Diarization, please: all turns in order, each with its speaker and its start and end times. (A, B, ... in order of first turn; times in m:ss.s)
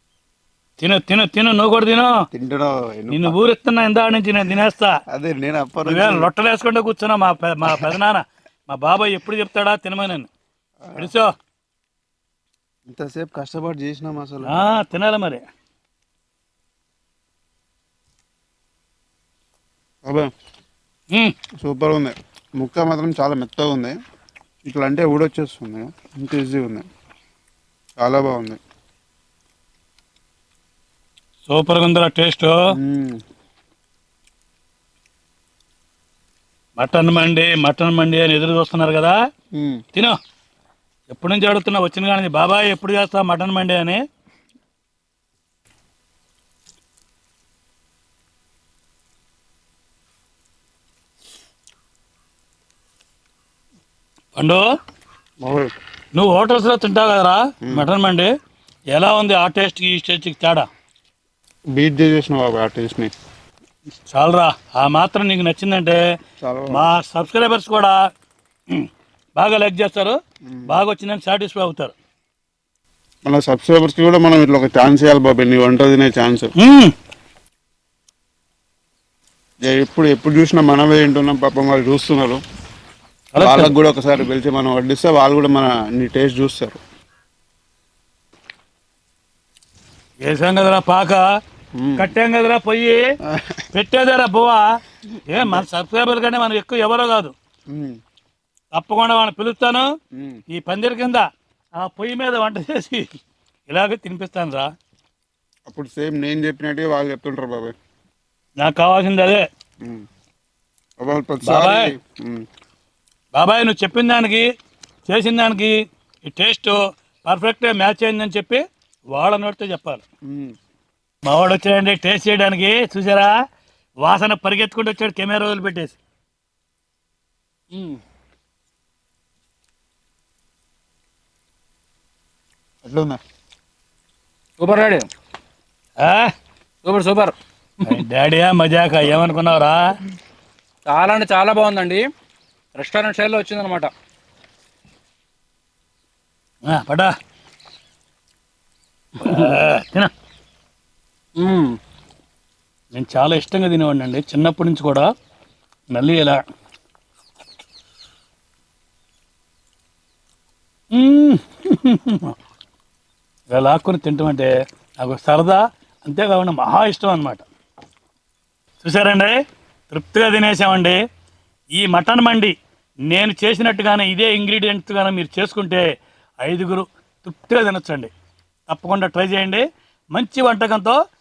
0:00.8-0:02.2 A
0:02.3-0:03.5 B
0:03.1-0:05.0 A
0:05.1-0:06.3 B
0:05.8-0:10.3 A
0:10.8-0:11.1 B
0:11.0-0:11.3 A
0:12.9-0:14.6 B
0:14.4-0:15.4 A
0:21.6-0:24.0 B
0:24.6-0:26.9 B
0:28.0-0:28.6 B
0:31.5-0:32.6 A
0:32.7-0:33.2 B
0:36.8-0:39.2 A
0:39.6-0:39.8 B
0:41.1-0:44.0 A
0:54.4-0:54.6 A
0:55.4-0:55.7 B
0:56.2-0:58.3 A
0:58.9-1:00.7 A
1:01.8-1:03.1 B
1:04.1-1:06.0 A
1:06.4-1:06.9 B
1:06.7-1:08.0 A
1:08.7-1:12.0 A
1:10.5-1:10.8 B
1:13.2-1:16.5 B
1:16.6-1:16.9 A
1:19.6-1:22.4 B
1:23.3-1:23.7 A
1:23.4-1:26.8 B
1:30.2-1:31.2 A
1:31.8-1:32.1 B
1:32.0-1:33.1 A
1:33.3-1:33.6 B
1:33.7-1:34.7 A
1:35.3-1:37.3 A
1:35.3-1:35.7 B
1:37.7-1:38.0 B
1:38.7-1:39.9 A
1:40.2-1:40.4 B
1:40.5-1:43.0 A
1:43.7-1:44.7 A
1:45.7-1:47.7 B
1:48.6-1:49.4 A
1:51.0-1:52.4 B
1:51.4-1:51.9 A
1:53.4-1:54.5 A
1:55.1-2:00.0 A
2:00.3-2:00.5 B
2:01.2-2:03.4 A
2:04.0-2:06.0 A
2:07.7-2:08.0 C
2:12.8-2:13.2 B
2:14.6-2:15.1 C
2:16.0-2:16.3 A
2:16.8-2:18.0 C
2:17.8-2:19.9 A
2:20.9-2:22.1 C
2:22.8-2:23.9 C
2:26.7-2:27.1 A
2:29.2-2:30.1 A
2:31.4-2:31.8 C
2:32.9-2:35.1 A
2:35.9-2:36.4 A
2:40.9-2:42.4 A
2:43.5-2:47.4 A
2:48.8-2:49.4 A
2:49.9-2:51.0 A
2:51.8-2:52.5 A
2:53.1-2:55.9 A
2:56.4-2:58.1 A
2:58.7-3:01.0 A